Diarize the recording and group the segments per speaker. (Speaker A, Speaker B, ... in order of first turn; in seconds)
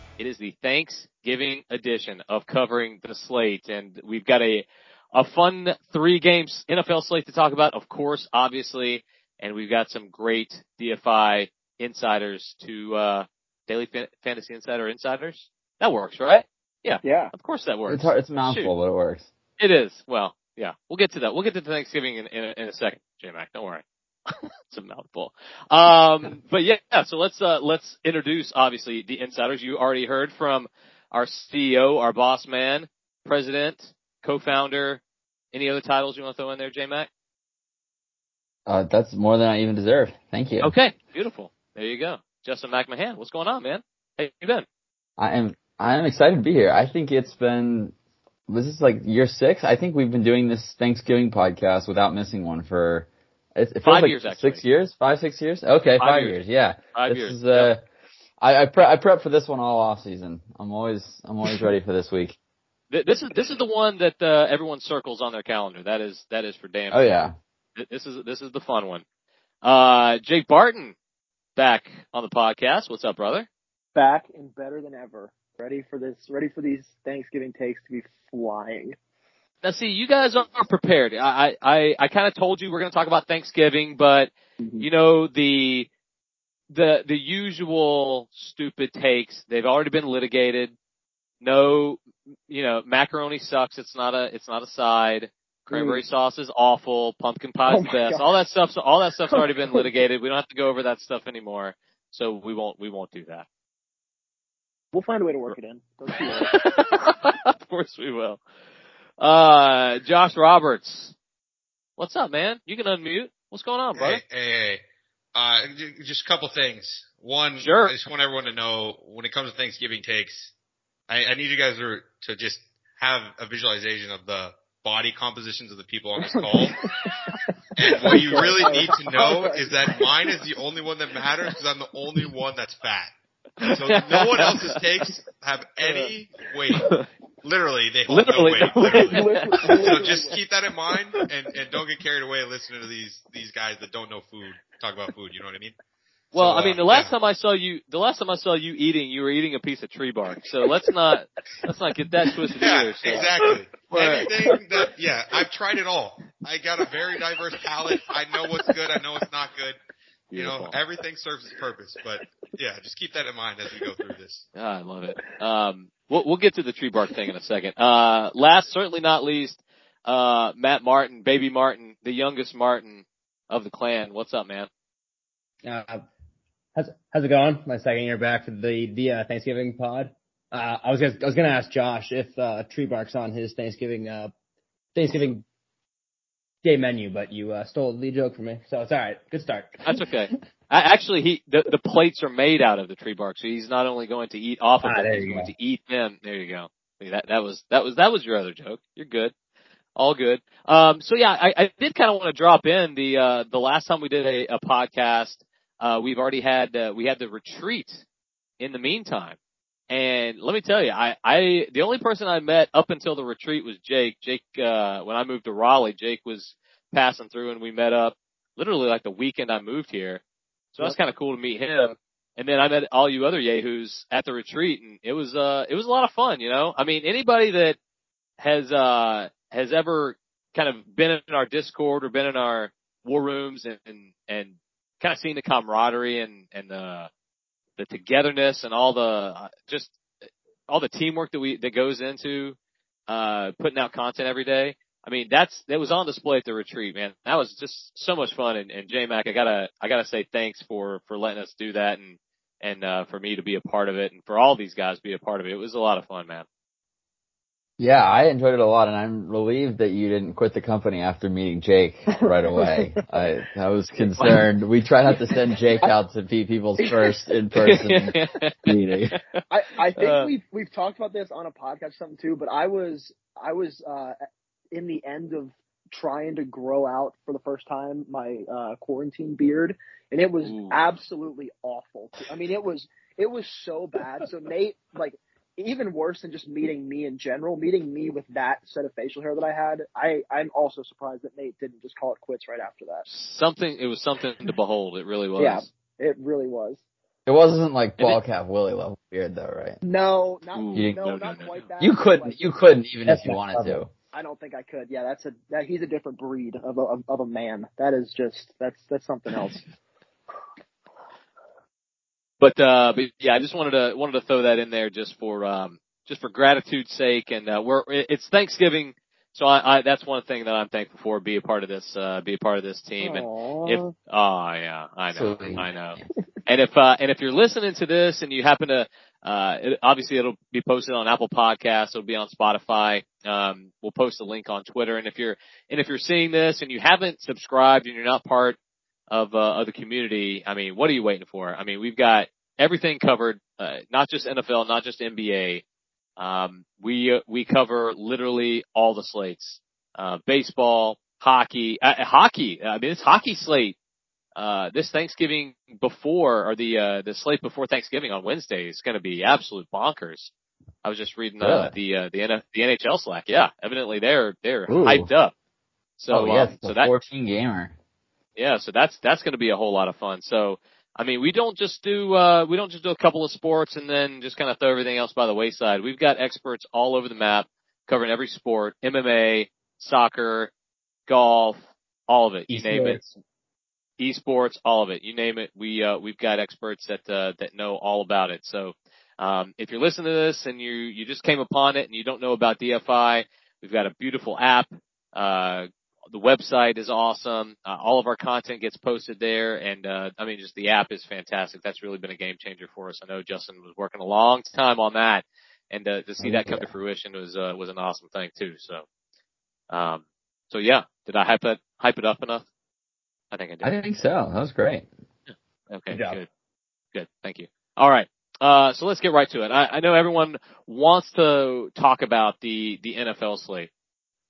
Speaker A: 0.2-18.7, 19.6-35.0, 35.5-37.1, 40.6-44.6, 53.8-54.6, 56.0-56.4, 56.9-57.7, 62.9-67.1, 67.8-69.0, 69.6-70.9, 71.5-73.5, 79.6-85.9, 86.7-90.7, 91.4-103.5, 106.2-108.4, 109.2-111.1, 112.0-114.2, 117.6-117.9, 133.6-134.8, 136.8-137.1, 138.1-140.0, 146.3-153.3, 153.9-154.3, 160.3-160.7, 164.5-174.7, 189.8-199.3, 199.9-208.0, 208.6-209.4, 209.9-220.2, 220.7-227.8, 228.4-237.1, 237.8-239.9, 240.7-242.6, 243.1-256.4, 267.6-269.2, 269.9-270.3, 280.4-280.8, 293.1-295.7, 300.5-301.6, 312.4-338.6, 339.1-345.6, 346.2-353.8, 354.4-360.3, 360.8-365.3, 366.0-366.9, 368.4-380.5, 381.1-383.0, 384.0-408.8, 409.7-412.4, 413.3-413.7, 415.3-416.3, 416.9-423.7
Speaker B: 17.0-17.3, 73.9-79.0, 84.6-84.9, 95.7-96.0, 97.7-98.3, 99.3-99.8, 104.9-106.7, 126.2-130.2, 135.8-136.1, 138.8-140.4, 153.1-153.5, 262.1-263.0, 266.8-267.1, 269.5-274.1, 274.7-293.1, 295.4-296.8, 299.8-302.6, 304.1-309.6, 323.0-323.9
Speaker C: 17.9-19.3, 38.6-40.7, 45.2-47.9, 48.5-57.8, 58.4-62.4, 66.9-67.3, 257.8-269.2, 297.2-299.8, 301.8-303.9, 325.1-326.0, 361.4-361.7, 364.7-365.1, 366.1-367.7, 406.2-406.7, 413.6-414.9
Speaker D: 113.9-114.8, 115.3-120.5, 121.1-127.1, 127.8-133.1, 133.7-145.7, 146.3-147.1, 152.6-159.8, 160.3-164.4
Speaker E: 175.6-176.0, 176.7-184.3, 184.9-185.4, 186.6-189.8, 194.8-195.5, 303.1-303.8, 382.5-383.1, 415.9-416.2